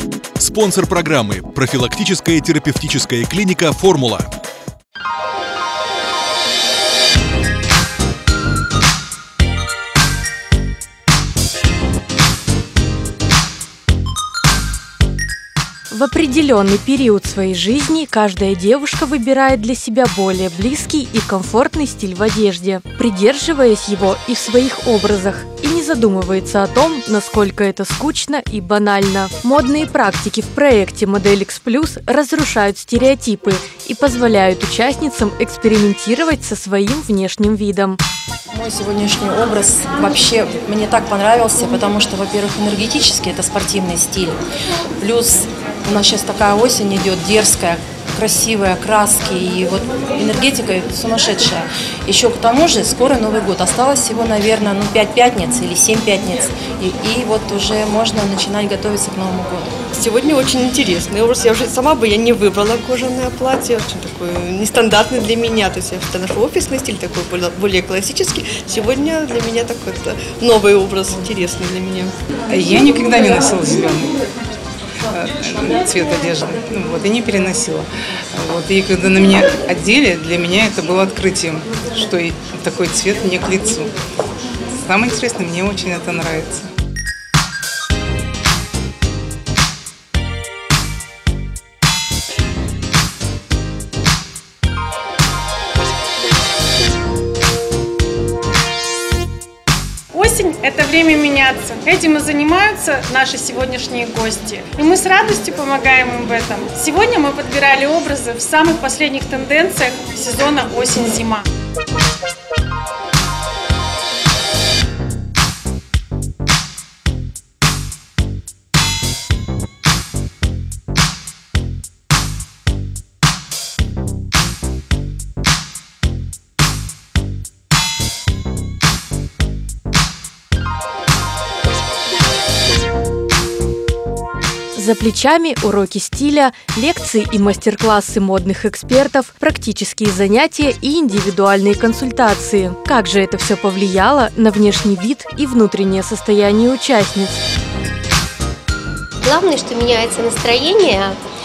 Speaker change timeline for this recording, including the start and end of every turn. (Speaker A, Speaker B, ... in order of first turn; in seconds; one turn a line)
Speaker A: 0.4-4.3
Speaker B: 15.9-38.0
Speaker C: 38.5-44.4
Speaker C: 45.0-59.8
Speaker D: 60.1-72.0
Speaker E: 72.5-74.1
Speaker E: 75.1-77.8
Speaker E: 78.4-83.9
Speaker E: 84.8-86.6
Speaker F: 100.2-111.4
Speaker E: 100.2-102.9
Speaker E: 104.3-106.1
Speaker E: 106.6-111.3
Speaker B: 134.7-147.4
Speaker G: 149.2-151.2